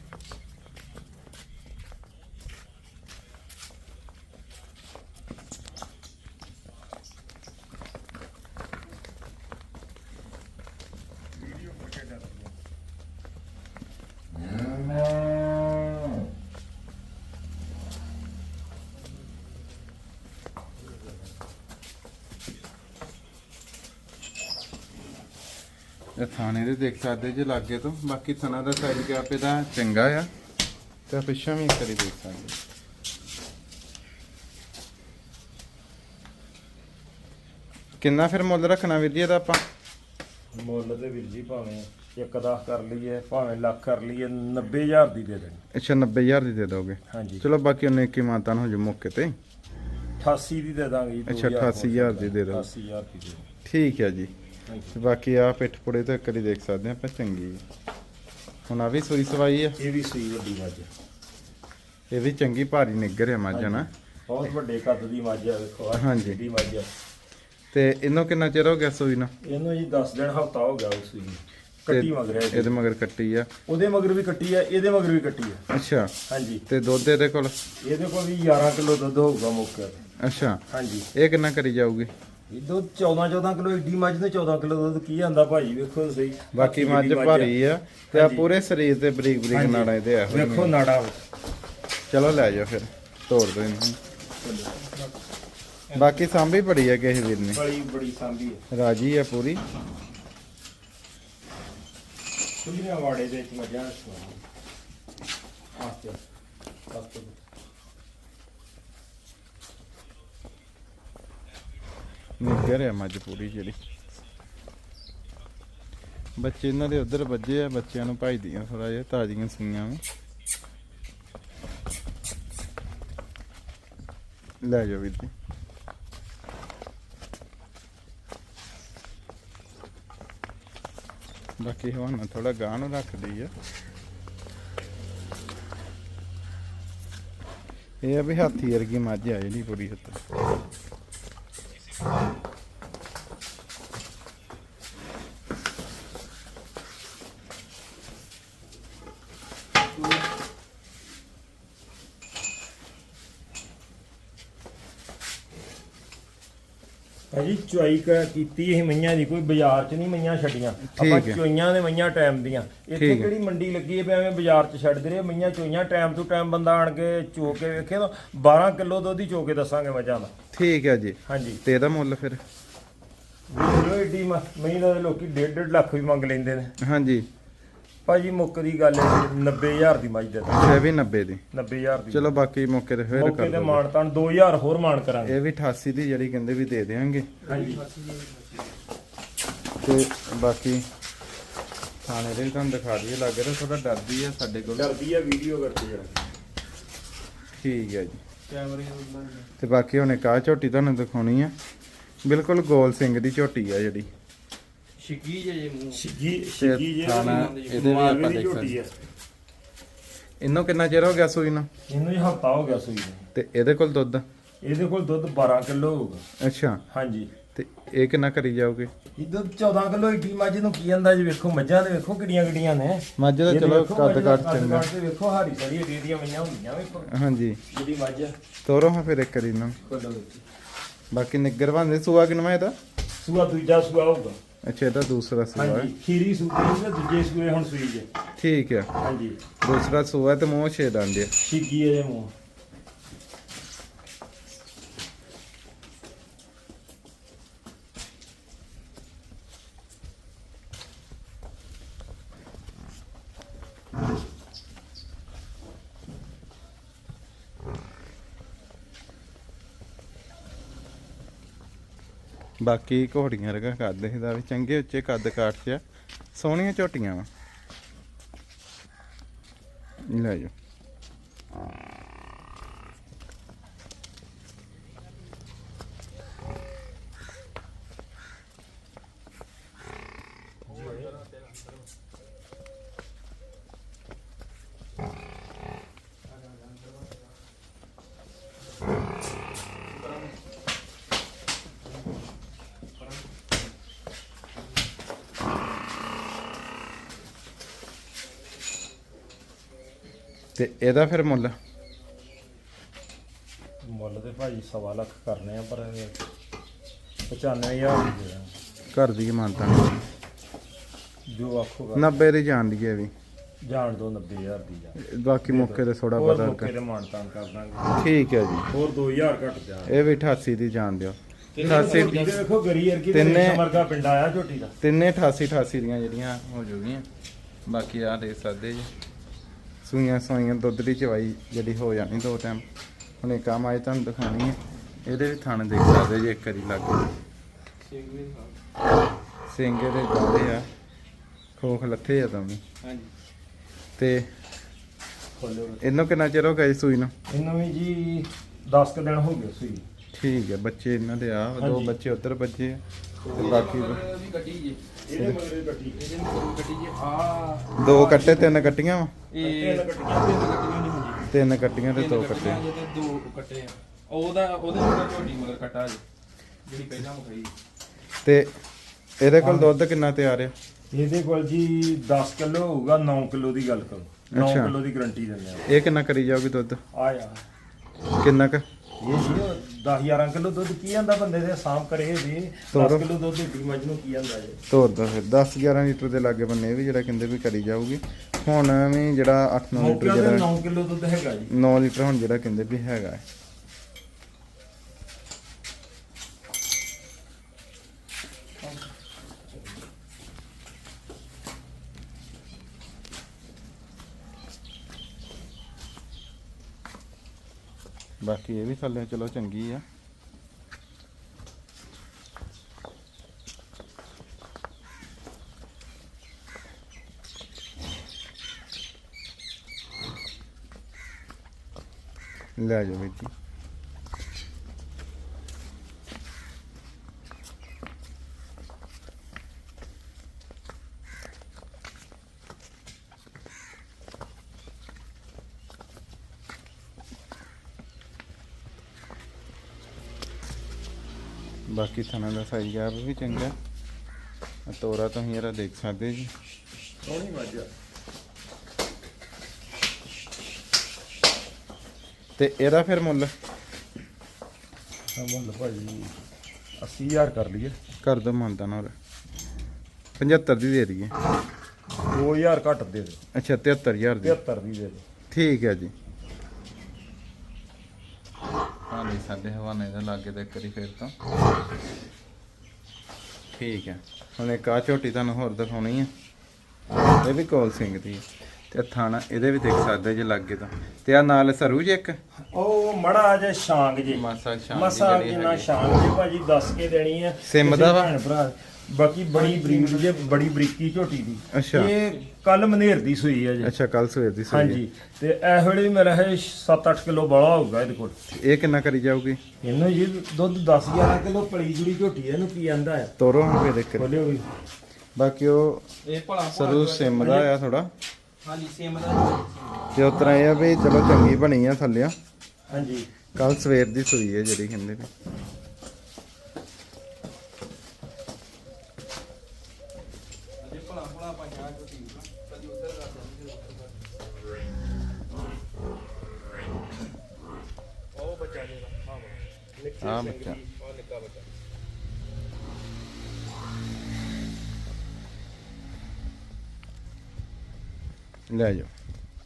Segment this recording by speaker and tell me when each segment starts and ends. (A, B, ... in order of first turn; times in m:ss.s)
0:11.4-0:12.5 A
0:26.2-0:30.3 B
0:31.1-0:32.6 B
0:38.0-0:39.6 B
0:40.5-0:45.6 A
0:45.7-0:49.3 B
0:47.1-0:47.4 A
0:50.2-0:53.5 A
0:51.2-0:52.7 B
0:53.6-0:54.3 B
0:54.7-0:54.9 A
0:54.9-0:57.6 B
0:58.7-0:59.8 B
0:59.8-1:00.9 A
1:02.1-1:03.9 B
1:03.5-1:06.9 A
1:06.0-1:06.4 B
1:07.7-1:09.3 B
1:09.4-1:12.8 A
1:11.9-1:13.5 B
1:13.6-1:15.6 A
1:15.7-1:16.1 B
1:16.2-1:16.6 A
1:16.7-1:17.6 B
1:17.8-1:20.0 A
1:20.2-1:22.1 B
1:20.7-1:21.1 A
1:22.5-1:27.6 A
1:26.5-1:30.8 B
1:28.1-1:28.5 A
1:29.5-1:31.2 A
1:32.1-1:34.0 B
1:34.4-1:34.8 A
1:34.8-1:35.1 C
1:35.9-1:36.2 C
1:35.9-1:37.6 B
1:37.5-1:38.6 A
1:38.7-1:39.6 B
1:42.6-1:44.4 A
1:45.7-1:46.2 A
1:46.9-1:47.4 A
1:52.4-1:53.8 B
1:56.4-2:00.0 B
2:04.6-2:05.3 B
2:11.6-2:13.5 B
2:18.0-2:20.2 B
2:37.3-2:50.3 A
2:40.9-2:41.4 B
2:42.9-2:43.3 B
2:50.5-2:52.4 B
2:51.2-2:51.6 A
2:53.5-2:56.8 A
2:56.8-2:57.2 B
2:58.0-3:00.8 A
3:00.5-3:01.4 B
3:01.5-3:02.4 A
3:02.1-3:03.8 B
3:03.1-3:05.4 A
3:05.2-3:07.4 B
3:07.4-3:08.7 C
3:07.4-3:07.8 A
3:09.8-3:10.8 B
3:12.0-3:14.9 B
3:14.7-3:16.2 A
3:17.6-3:18.2 B
3:18.5-3:19.5 C
3:19.6-3:21.5 B
3:22.2-3:24.1 B
3:25.0-3:26.0 C
3:25.9-3:29.0 A
3:26.6-3:28.8 B
3:27.2-3:28.0 C
3:30.4-3:31.7 B
3:31.9-3:33.3 A
3:33.3-3:34.2 B
3:34.6-3:36.2 A
3:36.4-3:36.8 B
3:36.9-3:37.4 A
3:37.5-3:38.9 B
3:39.2-3:47.1 A
3:43.2-3:44.9 B
3:47.0-3:47.6 B
3:47.7-3:48.3 A
3:48.6-3:49.8 B
3:49.8-3:50.4 A
3:51.1-3:52.8 B
3:53.2-3:54.4 A
3:54.6-3:55.9 B
3:55.5-3:58.1 A
3:58.4-3:58.9 B
3:59.0-3:59.5 A
3:59.6-4:01.3 B
4:01.4-4:02.3 A
4:22.6-4:25.8 B
4:26.3-4:27.3 B
4:30.0-4:30.5 B
4:40.7-4:41.1 A
4:40.7-4:41.9 C
4:46.3-4:47.3 C
4:49.9-4:50.4 C
5:00.6-5:01.6 B
5:03.8-5:06.2 A
5:07.3-5:08.5 A
5:08.9-5:10.0 B
5:11.3-5:12.1 A
5:11.9-5:13.1 B
5:13.6-5:18.0 A
5:15.0-5:16.7 B
5:17.9-5:18.7 B
5:18.7-5:20.0 A
5:19.8-5:22.3 B
5:21.5-5:22.4 C
5:21.6-5:24.7 A
5:23.1-5:23.7 B
5:24.8-5:27.0 B
5:27.6-5:28.9 B
5:29.8-5:32.6 B
5:33.2-5:37.1 B
5:37.8-5:38.6 C
5:39.5-5:40.7 B
5:41.6-5:42.6 B
5:42.8-5:43.1 C
5:44.0-5:44.3 B
5:45.4-5:45.8 A
5:45.8-5:47.1 B
5:47.3-5:49.8 A
5:50.1-5:54.0 B
5:51.6-5:51.9 A
5:53.2-5:54.9 C
5:55.1-5:56.0 A
5:56.0-5:58.7 C
5:57.8-5:59.2 B
5:59.3-6:01.2 C
5:59.4-6:00.4 A
6:01.3-6:02.6 B
6:01.9-6:06.0 C
6:06.7-6:07.5 C
6:08.2-6:08.5 B
6:09.2-6:10.5 B
6:09.4-6:09.7 A
6:10.9-6:15.6 A
6:14.3-6:14.7 B
6:15.7-6:16.8 B
6:16.9-6:17.4 A
6:18.2-6:18.6 B
6:19.0-6:24.6 A
6:22.7-6:23.1 B
6:24.7-6:30.5 B
6:29.7-6:31.5 A
6:31.5-6:33.2 B
6:48.2-6:49.8 B
7:02.6-7:03.3 B
7:21.7-7:23.5 B
7:24.7-7:26.3 B
7:27.0-7:27.7 A
7:32.4-7:33.3 B
7:35.1-7:36.1 A
7:36.8-7:37.8 A
7:38.0-7:38.9 B
7:40.2-7:41.1 B
7:42.1-7:43.2 A
7:43.3-7:44.4 B
7:44.2-7:45.0 A
7:45.3-7:45.9 B
7:48.9-7:51.1 B
7:53.6-7:56.1 B
7:57.2-8:02.2 B
8:02.4-8:13.7 A
8:04.1-8:05.7 B
8:07.4-8:08.1 B
8:09.3-8:10.5 C
8:11.5-8:11.9 B
8:13.6-8:14.8 B
8:14.5-8:18.2 A
8:18.3-8:19.4 B
8:19.6-8:23.1 A
8:23.2-8:24.1 B
8:24.0-8:24.5 A
8:25.2-8:25.9 B
8:26.0-8:27.5 C
8:26.4-8:27.9 B
8:28.4-8:30.7 C
8:29.9-8:32.1 B
8:32.7-8:33.1 A
8:33.3-8:35.1 B
8:40.6-8:44.1 C
8:48.1-8:51.5 C
8:50.0-8:50.6 B
8:58.5-8:58.9 B